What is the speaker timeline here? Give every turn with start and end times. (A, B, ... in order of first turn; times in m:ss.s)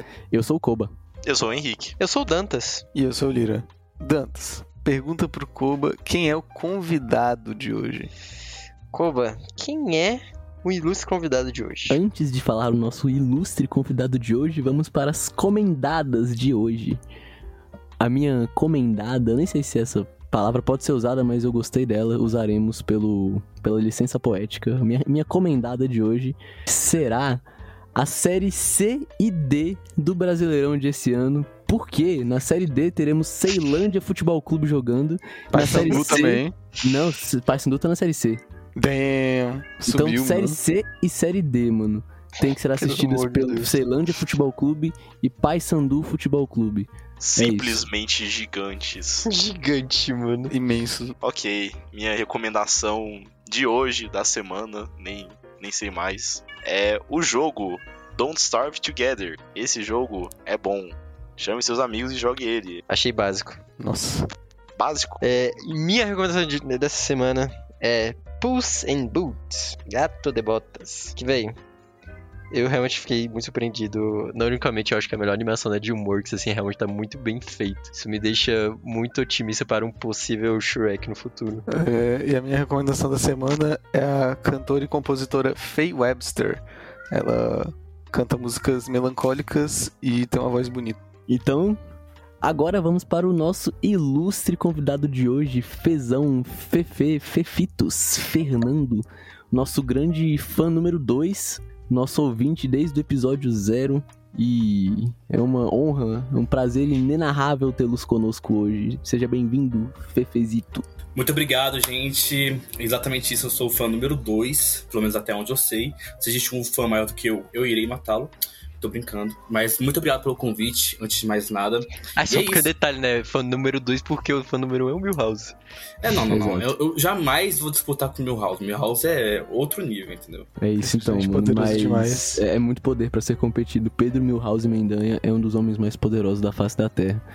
0:00.3-0:00.9 A
0:01.2-0:02.0 B
0:02.0-0:02.8 C
0:02.9-0:08.1 D
0:08.9-0:12.0 C
0:11.9-0:17.0 A
0:18.0-0:27.4 A
0:27.9-0:38.4 A
0:35.5-0:36.5 D
0:35.9-0:36.2 C
0:38.8-0:40.6 D
0:39.9-0:47.8 A
0:42.8-0:43.8 C
0:47.2-0:49.3 B
0:49.2-0:50.5 C
0:50.5-0:51.2 D
0:51.2-1:02.8 B
1:02.9-1:03.6 C
1:03.8-1:04.3 D
1:04.8-1:05.2 B
1:05.2-1:11.5 C
1:12.5-1:21.6 C
1:21.7-1:31.0 D
1:31.3-1:31.8 A
1:32.4-1:50.8 A
1:51.1-2:02.7 E
2:02.2-2:05.5 C
2:06.0-2:10.5 E
2:06.2-2:06.7 A
2:10.6-2:17.2 A
2:10.8-2:12.4 D